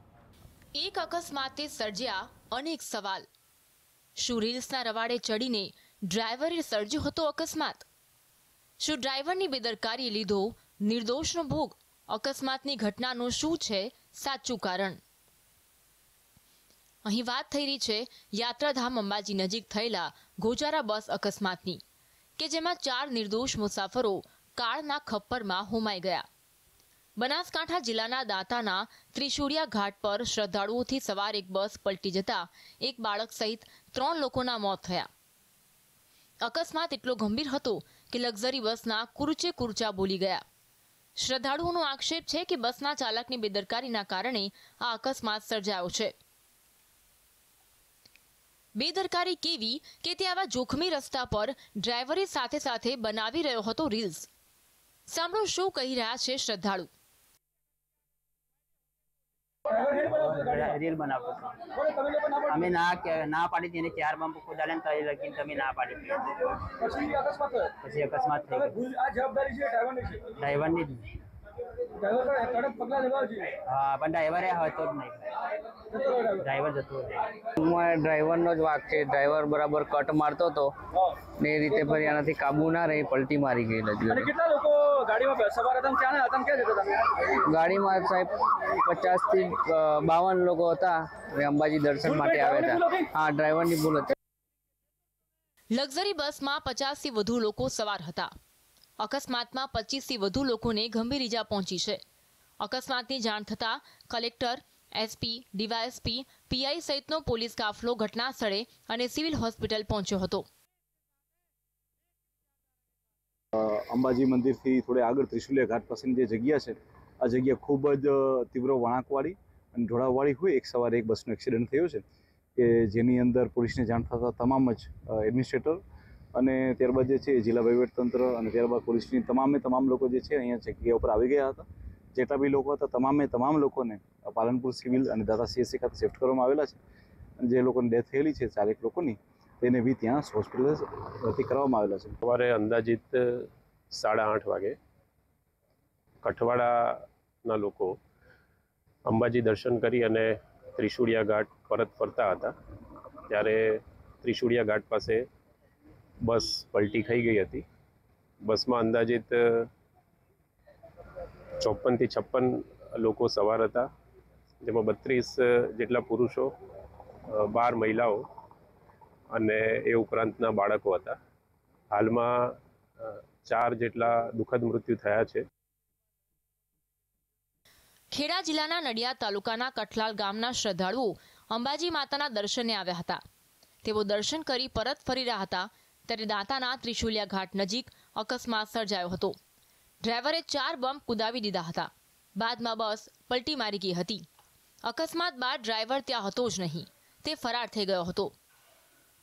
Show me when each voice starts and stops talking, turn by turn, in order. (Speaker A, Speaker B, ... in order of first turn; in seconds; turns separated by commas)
Speaker A: 0.7-3.3, Speaker A: 4.2-7.9, Speaker A: 8.8-15.0, Speaker A: 17.1-21.8, Speaker A: 22.4-26.3, Speaker A: 27.2-35.1, Speaker A: 36.4-40.4, Speaker A: 41.2-46.1, Speaker A: 48.8-54.3, Speaker A: 55.1-56.9, Speaker B: 59.7-61.7, Speaker B: 62.3-66.3, Speaker B: 67.8-68.8, Speaker C: 69.6-70.2, Speaker B: 70.3-71.1, Speaker C: 72.2-73.4, Speaker B: 73.6-75.2, Speaker B: 76.0-77.3, Speaker D: 77.6-80.7, Speaker D: 81.4-84.3, Speaker C: 84.5-87.0, Speaker D: 87.4-94.2, Speaker A: 95.7-98.3, Speaker A: 99.0-102.0, Speaker A: 102.6-110.5, Speaker E: 113.6-122.0, Speaker E: 122.6-125.8, Speaker E: 126.3-136.8, Speaker E: 137.4-142.2, Speaker F: 142.2-144.8, Speaker F: 146.2-148.0, Speaker F: 149.1-152.6, Speaker F: 153.3-155.3, Speaker F: 156.2-157.7, Speaker F: 158.5-159.7, Speaker F: 161.6-163.9, Speaker F: 164.6-166.5, Speaker F: 167.3-168.3, Speaker F: 169.3-171.2, Speaker F: 171.9-175.4, Speaker A: 178.1-183.2, Speaker A: 183.8-189.4, Speaker A: 190.0-194.3, Speaker A: 194.8-198.3